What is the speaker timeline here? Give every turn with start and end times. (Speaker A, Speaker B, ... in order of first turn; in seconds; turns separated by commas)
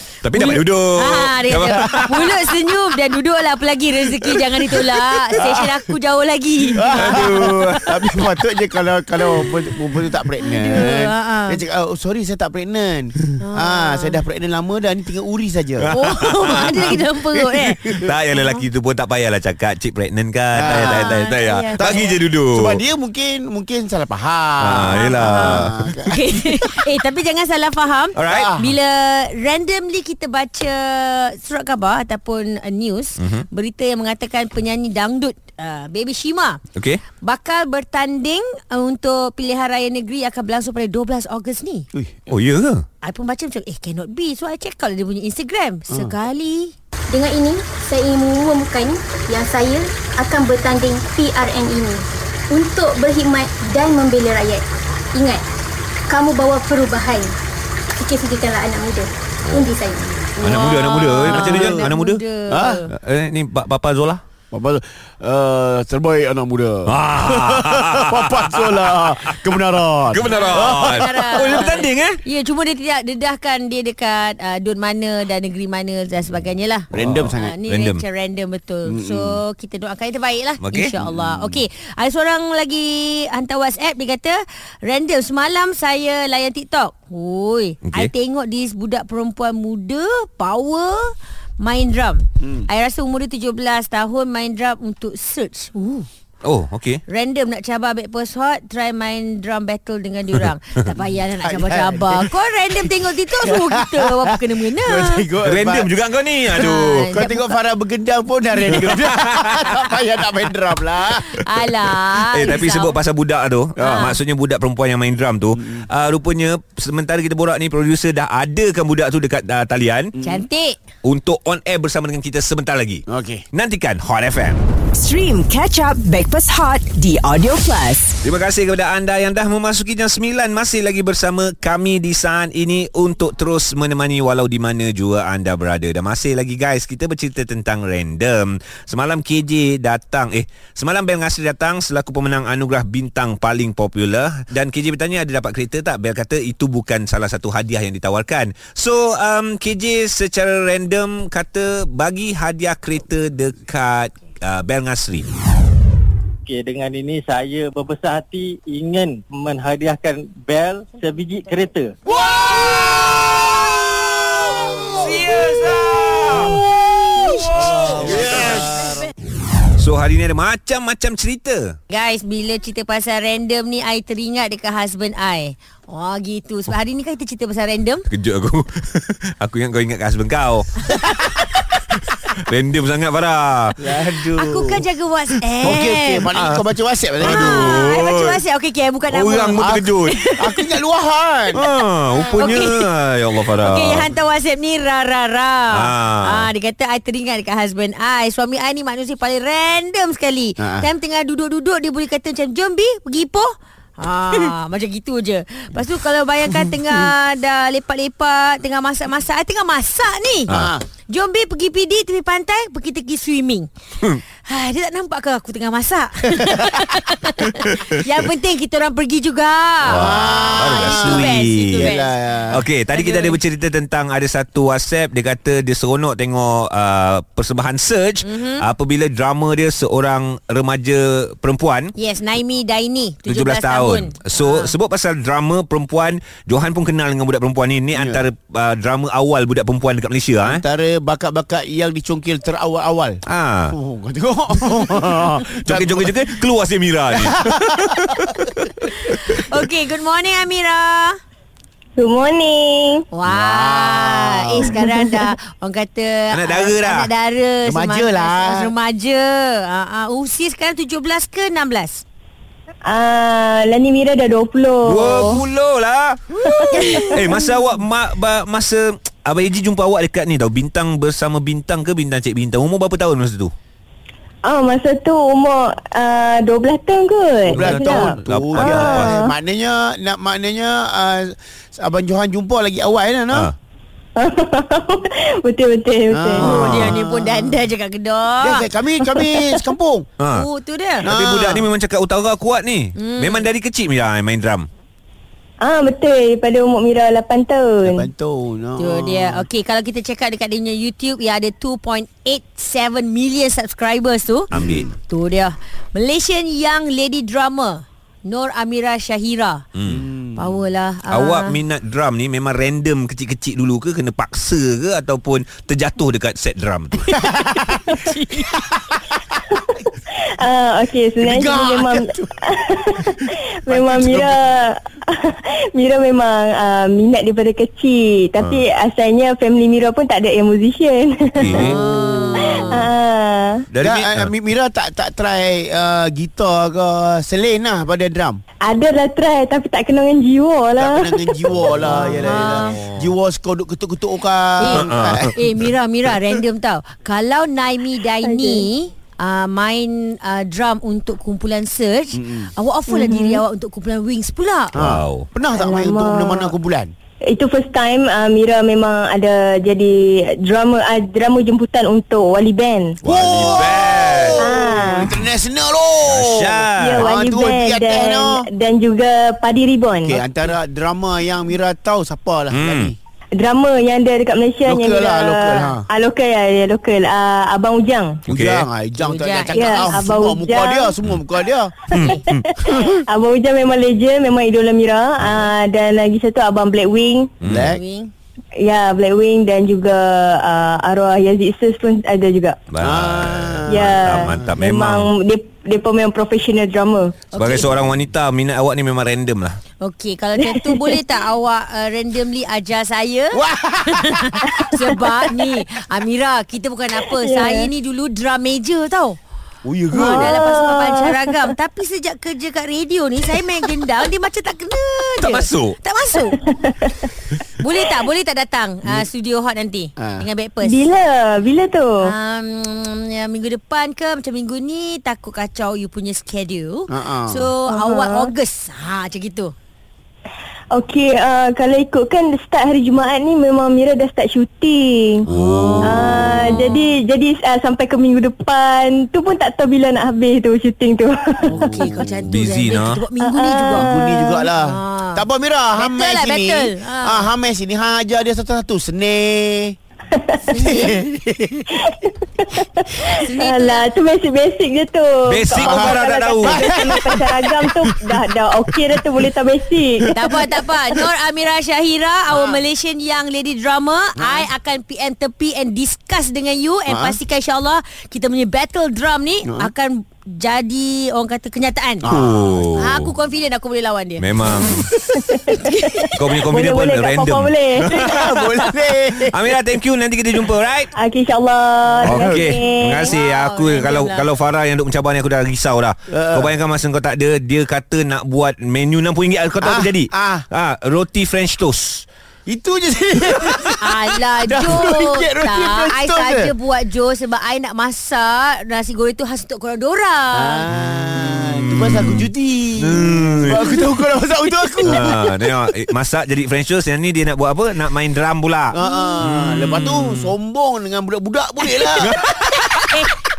Speaker A: 0.2-2.5, Speaker B: 0.3-7.3, Speaker C: 5.4-5.7, Speaker C: 6.7-18.1, Speaker A: 6.9-8.0, Speaker B: 10.4-11.6, Speaker B: 13.4-14.2, Speaker A: 15.8-17.0, Speaker B: 15.9-18.5, Speaker A: 17.9-22.8, Speaker C: 20.5-21.2, Speaker B: 20.7-22.1, Speaker C: 21.8-26.9, Speaker A: 24.6-25.8, Speaker B: 24.9-36.6, Speaker A: 28.2-28.6, Speaker C: 28.3-28.8, Speaker A: 33.2-33.5, Speaker A: 36.8-37.0, Speaker B: 37.2-41.9, Speaker A: 42.3-42.9, Speaker B: 43.0-46.7, Speaker C: 45.9-46.2, Speaker D: 47.1-55.5, Speaker D: 56.1-57.4, Speaker D: 58.0-60.0, Speaker A: 59.5-59.7, Speaker B: 60.4-62.9, Speaker A: 60.4-62.2, Speaker C: 61.2-61.9, Speaker C: 62.5-62.9, Speaker A: 62.9-64.2, Speaker C: 64.5-71.8, Speaker A: 66.9-69.5, Speaker A: 70.1-72.2, Speaker B: 70.3-96.1, Speaker C: 76.9-77.6, Speaker A: 77.0-78.0, Speaker C: 78.8-79.4, Speaker A: 80.6-80.9, Speaker C: 81.0-81.6, Speaker C: 92.4-92.7, Speaker A: 96.4-97.0, Speaker B: 97.1-105.3, Speaker C: 101.4-102.3, Speaker C: 103.4-106.0, Speaker A: 105.4-107.1, Speaker C: 106.5-111.3, Speaker B: 106.5-107.5, Speaker A: 108.7-109.9, Speaker B: 111.2-113.0, Speaker A: 112.3-120.1, Speaker C: 113.8-114.2, Speaker C: 115.6-115.9, Speaker C: 120.2-120.4, Speaker B: 120.2-120.8, Speaker A: 121.0-124.6, Speaker C: 123.1-123.5, Speaker E: 124.9-128.1, Speaker A: 128.2-155.3, Speaker F: 156.5-161.9, Speaker A: 162.1-166.6, Speaker A: 167.2-168.8, Speaker C: 167.8-168.7, Speaker A: 169.8-171.8, Speaker B: 171.9-178.1, Speaker A: 178.1-183.8, Speaker C: 183.8-184.8, Speaker B: 184.3-186.3, Speaker C: 185.6-187.9, Speaker A: 186.3-186.6, Speaker A: 187.2-188.4, Speaker B: 187.2-189.6, Speaker A: 189.1-190.2, Speaker C: 189.6-191.6, Speaker B: 190.2-190.6, Speaker A: 191.5-194.1, Speaker B: 192.3-210.5, Speaker A: 195.7-196.5, Speaker C: 200.6-200.9, Speaker A: 210.5-210.7, Speaker C: 210.5-210.8, Speaker B: 211.1-213.7, Speaker B: 214.5-222.1, Speaker C: 216.5-216.8, Speaker A: 217.6-218.0, Speaker A: 219.9-222.0, Speaker C: 219.9-222.7, Speaker A: 222.5-231.9, Speaker B: 222.9-223.4, Speaker B: 228.2-228.6, Speaker B: 232.0-234.7, Speaker A: 233.3-240.6, Speaker C: 237.9-238.2, Speaker C: 240.4-246.3, Speaker A: 243.3-243.7, Speaker A: 244.6-248.6, Speaker C: 247.2-248.7, Speaker B: 248.9-251.2, Speaker G: 252.0-253.0, Speaker B: 253.1-262.0, Speaker C: 253.3-254.8, Speaker G: 254.7-255.3, Speaker A: 256.3-257.1, Speaker C: 257.6-258.7, Speaker G: 262.9-265.4, Speaker A: 264.8-273.5, Speaker G: 266.6-267.2, Speaker C: 266.8-267.2, Speaker G: 274.4-279.3, Speaker C: 277.5-283.5, Speaker A: 277.5-279.1, Speaker G: 284.2-286.6, Speaker C: 286.1-287.6, Speaker B: 286.4-288.6, Speaker C: 288.4-290.1, Speaker G: 289.1-289.6, Speaker A: 290.2-290.5, Speaker B: 290.3-291.1, Speaker A: 291.0-294.7, Speaker C: 291.0-291.7, Speaker B: 293.0-293.5, Speaker G: 295.6-298.1, Speaker C: 297.8-299.5, Speaker B: 298.8-309.6, Speaker A: 304.5-304.9, Speaker C: 304.5-304.9, Speaker A: 309.8-310.0, Speaker C: 309.9-310.6, Speaker B: 310.4-311.6, Speaker A: 311.1-317.2, Speaker C: 317.1-319.4, Speaker G: 319.5-319.8, Speaker G: 320.3-331.7, Speaker C: 321.2-324.5, Speaker A: 331.4-331.8, Speaker B: 331.5-332.9, Speaker C: 331.8-332.2, Speaker G: 332.4-333.6, Speaker A: 333.7-334.3, Speaker C: 333.8-338.4, Speaker G: 338.6-341.7, Speaker C: 340.8-345.3, Speaker A: 341.5-342.1, Speaker B: 341.9-342.8, Speaker A: 342.6-343.1, Speaker B: 344.6-354.7, Speaker A: 344.7-345.4, Speaker G: 348.2-348.6, Speaker C: 352.1-352.5, Speaker G: 352.9-353.4, Speaker A: 354.8-355.3, Speaker C: 354.8-356.9, Speaker G: 355.5-356.5, Speaker G: 357.2-363.0, Speaker A: 363.0-365.2, Speaker C: 363.0-368.5, Speaker G: 364.4-365.1, Speaker A: 366.1-367.1, Speaker G: 366.8-370.2, Speaker C: 370.0-373.0, Speaker A: 372.5-372.9, Speaker G: 373.4-378.2, Speaker C: 374.6-375.9, Speaker A: 378.3-378.7, Speaker C: 378.3-381.8, Speaker B: 379.0-380.1, Speaker G: 379.6-380.9, Speaker A: 381.9-382.5, Speaker G: 382.0-387.3, Speaker A: 387.4-387.8, Speaker C: 387.4-387.8, Speaker B: 387.6-388.1, Speaker G: 388.6-392.6, Speaker A: 392.7-395.1, Speaker C: 392.8-394.5, Speaker G: 393.7-397.2, Speaker B: 397.3-397.8, Speaker A: 397.4-399.6, Speaker B: 399.8-403.4, Speaker G: 400.4-400.9, Speaker C: 403.3-404.5, Speaker B: 403.9-409.2, Speaker G: 404.4-404.7, Speaker G: 407.2-407.7, Speaker C: 409.6-410.4, Speaker G: 409.9-411.5, Speaker B: 410.0-416.4, Speaker A: 415.2-415.8, Speaker G: 416.4-417.1, Speaker B: 417.6-420.8, Speaker C: 418.8-419.1, Speaker C: 420.0-420.3, Speaker G: 420.6-422.0, Speaker B: 422.0-429.5, Speaker C: 426.9-427.5, Speaker G: 427.7-428.3, Speaker G: 430.7-435.2, Speaker A: 435.3-436.7, Speaker B: 435.3-436.9, Speaker G: 435.8-441.9, Speaker C: 441.5-442.2, Speaker B: 441.5-443.9, Speaker A: 442.3-443.0, Speaker G: 443.2-444.5, Speaker C: 443.7-449.8, Speaker B: 444.6-445.2, Speaker B: 445.8-447.3, Speaker G: 450.1-450.4, Speaker B: 450.5-451.0, Speaker C: 450.6-451.8, Speaker G: 451.8-460.5, Speaker B: 453.1-453.9, Speaker A: 455.3-457.1, Speaker C: 455.6-457.2, Speaker B: 460.1-472.1, Speaker C: 462.3-462.6, Speaker C: 464.2-464.5, Speaker C: 466.9-467.2, Speaker C: 469.4-469.7, Speaker C: 472.0-472.6, Speaker A: 472.1-473.1, Speaker B: 472.7-474.3, Speaker A: 474.2-474.9, Speaker G: 475.0-478.4, Speaker B: 475.5-476.1, Speaker A: 476.2-478.6, Speaker C: 477.9-479.4, Speaker A: 479.2-480.9, Speaker G: 481.0-483.1, Speaker C: 482.0-482.6, Speaker A: 482.0-492.1, Speaker B: 483.0-484.3, Speaker C: 486.1-486.5, Speaker C: 489.6-490.5, Speaker C: 492.5-496.5, Speaker B: 493.8-500.6, Speaker C: 500.3-505.6, Speaker A: 501.2-502.3, Speaker A: 502.8-503.6, Speaker A: 504.9-510.3, Speaker C: 508.7-512.1, Speaker B: 508.8-509.2, Speaker A: 512.0-513.0